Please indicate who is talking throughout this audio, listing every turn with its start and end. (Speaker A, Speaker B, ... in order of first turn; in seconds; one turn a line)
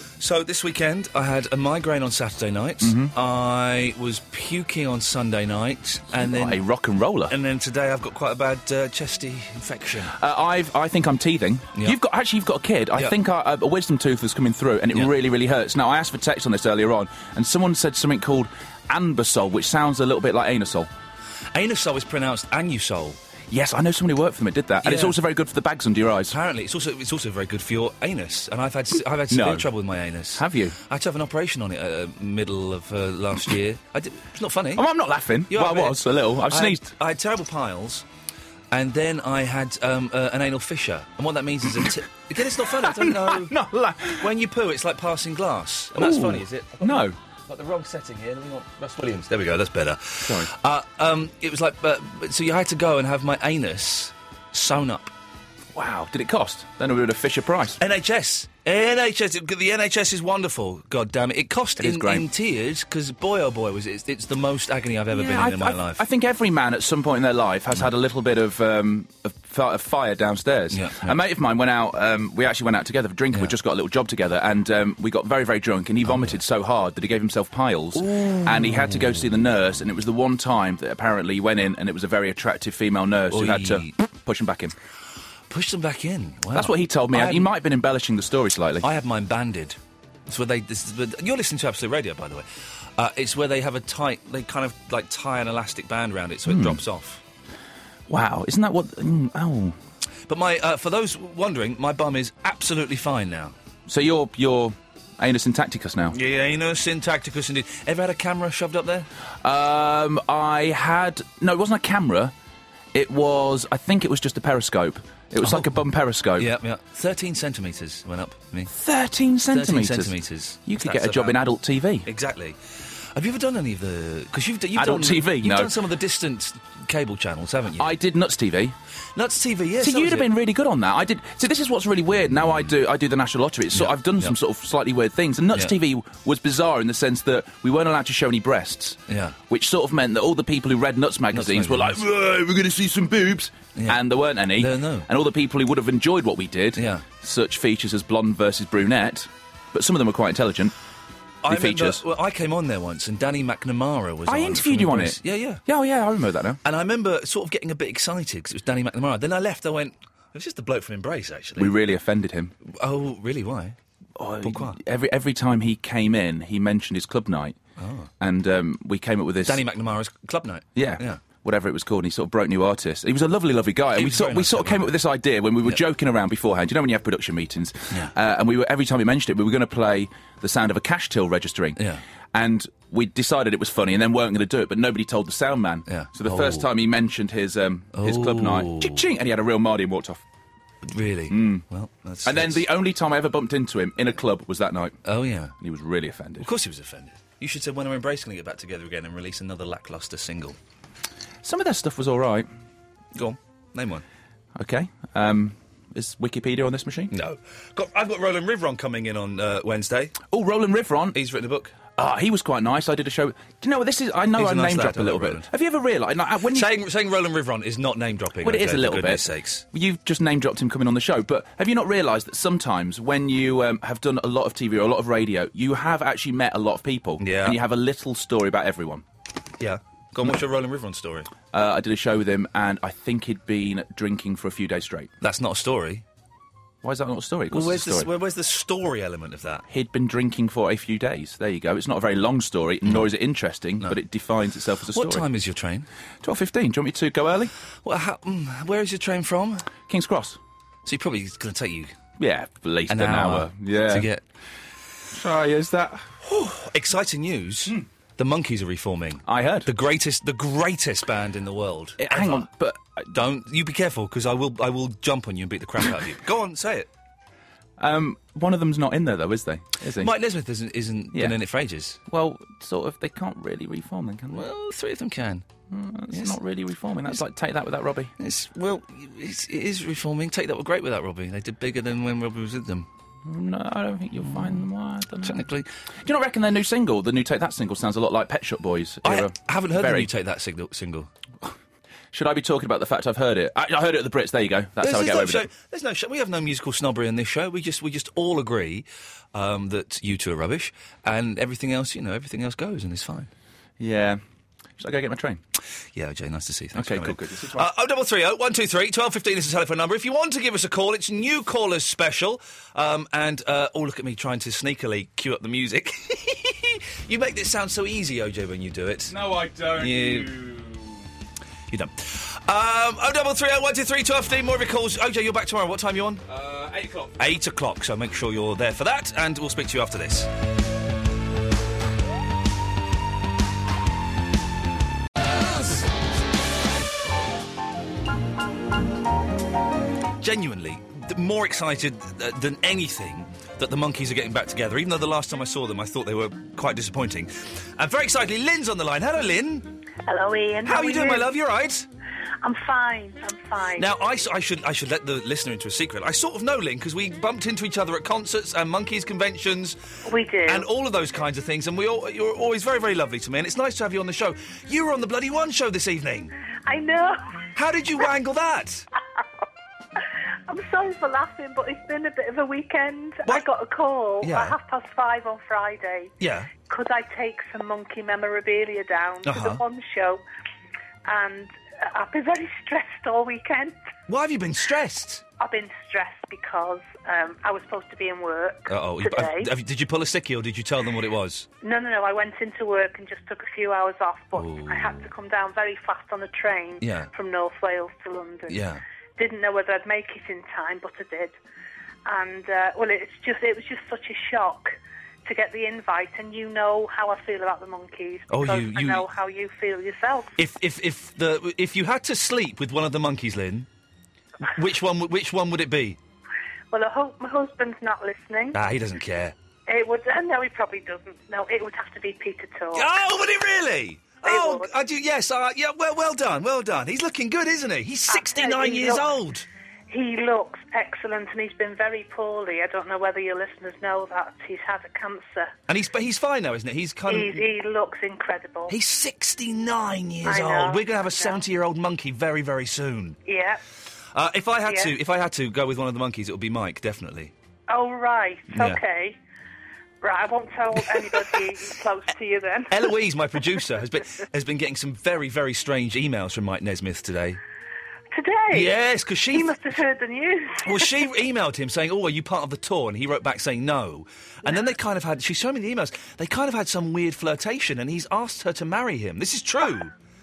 Speaker A: 0.2-6.6
Speaker B: 2.8-3.1
Speaker B: 6.2-7.3
Speaker A: 7.3-10.1
Speaker B: 10.1-20.9
Speaker A: 21.5-23.2
Speaker B: 23.5-26.4
Speaker A: 24.8-25.2
Speaker A: 26.3-34.8
Speaker B: 29.3-29.7
Speaker B: 30.4-30.8
Speaker B: 34.8-36.8
Speaker A: 35.5-38.0
Speaker A: 38.7-43.5
Speaker B: 42.6-44.3
Speaker A: 44.2-55.1
Speaker B: 46.0-47.1
Speaker B: 50.2-50.5
Speaker B: 55.7-57.8
Speaker A: 57.8-66.0
Speaker B: 61.8-62.2
Speaker B: 65.1-84.7
Speaker A: 70.7-71.1
Speaker A: 76.0-76.4
Speaker A: 78.0-79.3
Speaker A: 83.3-83.9
Speaker A: 85.5-87.5
Speaker B: 86.5-88.8
Speaker A: 88.8-97.2
Speaker B: 96.5-96.8
Speaker B: 98.1-99.8
Speaker A: 100.3-103.5
Speaker B: 103.9-106.2
Speaker A: 106.1-109.1
Speaker B: 109.4-112.3
Speaker B: 112.9-116.5
Speaker A: 115.4-115.8
Speaker A: 116.4-118.7
Speaker B: 118.7-122.1
Speaker A: 119.5-121.4
Speaker A: 122.0-122.6
Speaker A: 123.1-127.9
Speaker B: 124.8-125.7
Speaker B: 127.8-128.7
Speaker A: 129.2-130.3
Speaker B: 129.8-150.7
Speaker A: 133.7-134.3
Speaker A: 139.1-139.4
Speaker A: 141.3-142.0
Speaker A: 144.6-145.1
Speaker A: 146.8-147.0
Speaker A: 151.4-155.6
Speaker B: 151.5-152.0
Speaker B: 154.3-156.6
Speaker A: 156.6-161.8
Speaker B: 161.6-162.5
Speaker A: 162.6-163.8
Speaker B: 164.2-167.6
Speaker A: 164.4-164.8
Speaker A: 167.8-168.1
Speaker B: 168.2-169.6
Speaker A: 169.4-171.2
Speaker B: 170.8-181.8
Speaker A: 173.9-174.9
Speaker A: 181.8-182.0
Speaker B: 182.3-190.2
Speaker A: 185.9-186.7
Speaker A: 187.9-189.0
Speaker A: 190.8-192.7
Speaker B: 191.3-191.6
Speaker B: 192.2-195.0
Speaker A: 195.0-195.6
Speaker B: 195.6-196.5
Speaker A: 196.4-200.6
Speaker B: 201.4-202.5
Speaker A: 203.1-204.0
Speaker B: 204.6-207.1
Speaker A: 207.1-210.2
Speaker B: 210.3-211.2
Speaker A: 211.1-211.8
Speaker B: 211.9-216.7
Speaker A: 214.3-215.5
Speaker A: 216.5-219.6
Speaker B: 218.4-229.0
Speaker A: 227.2-227.6
Speaker A: 229.6-231.3
Speaker B: 231.5-235.1
Speaker A: 235.2-236.0
Speaker B: 236.8-238.1
Speaker A: 237.5-239.7
Speaker B: 239.7-245.2
Speaker A: 242.8-243.1
Speaker A: 244.9-245.9
Speaker B: 246.2-247.5
Speaker A: 247.8-249.7
Speaker B: 249.9-250.4
Speaker A: 250.8-251.9
Speaker B: 252.2-254.1
Speaker A: 252.9-254.2
Speaker B: 255.1-256.1
Speaker A: 256.2-262.5
Speaker B: 259.3-259.7
Speaker B: 262.0-263.1
Speaker A: 263.1-266.9
Speaker B: 267.8-270.1
Speaker A: 270.0-272.0
Speaker B: 272.1-274.4
Speaker A: 274.3-275.4
Speaker B: 275.7-278.1
Speaker A: 276.1-276.4
Speaker A: 278.2-282.9
Speaker B: 283.2-285.5
Speaker A: 284.3-284.6
Speaker A: 285.2-285.6
Speaker B: 286.0-290.1
Speaker A: 289.0-291.1
Speaker B: 292.1-295.4
Speaker A: 294.8-303.3
Speaker B: 303.8-304.2
Speaker B: 304.8-305.4
Speaker A: 305.9-319.1
Speaker B: 306.7-307.7
Speaker B: 319.1-321.1
Speaker A: 319.7-320.4
Speaker A: 321.7-326.2
Speaker B: 326.3-327.2
Speaker A: 327.2-330.3
Speaker A: 340.2-349.7
Speaker C: 350.0-351.3
Speaker A: 350.6-351.9
Speaker C: 352.4-353.9
Speaker A: 353.8-359.8
Speaker C: 360.0-360.7
Speaker A: 360.4-366.3
Speaker C: 366.6-367.4
Speaker A: 367.5-368.9
Speaker C: 370.0-376.1
Speaker A: 374.2-374.5
Speaker A: 376.2-376.5
Speaker C: 376.7-380.2
Speaker A: 379.2-379.6
Speaker C: 381.0-383.8
Speaker A: 384.1-385.2
Speaker C: 385.4-389.5
Speaker A: 388.7-391.5
Speaker C: 391.6-398.6
Speaker A: 394.3-395.1
Speaker A: 396.8-397.1
Speaker A: 398.5-398.8
Speaker C: 399.2-401.4
Speaker C: 402.1-410.3
Speaker A: 408.3-409.1
Speaker A: 410.4-413.7
Speaker A: 414.4-416.0
Speaker C: 416.7-418.6
Speaker A: 418.5-419.3
Speaker C: 419.7-422.9
Speaker A: 422.7-429.5
Speaker C: 424.2-424.7
Speaker C: 428.1-429.1
Speaker C: 429.9-435.5
Speaker A: 435.7-437.4
Speaker C: 437.1-438.7
Speaker A: 438.7-443.2
Speaker C: 440.2-441.4
Speaker C: 443.2-443.6
Speaker A: 444.1-447.3
Speaker C: 444.6-444.9
Speaker C: 447.7-449.2
Speaker A: 448.5-448.8
Speaker C: 450.0-452.9
Speaker A: 452.7-457.4
Speaker C: 458.1-458.7
Speaker A: 458.5-459.6
Speaker C: 459.3-461.1
Speaker A: 460.6-469.9
Speaker C: 464.4-464.7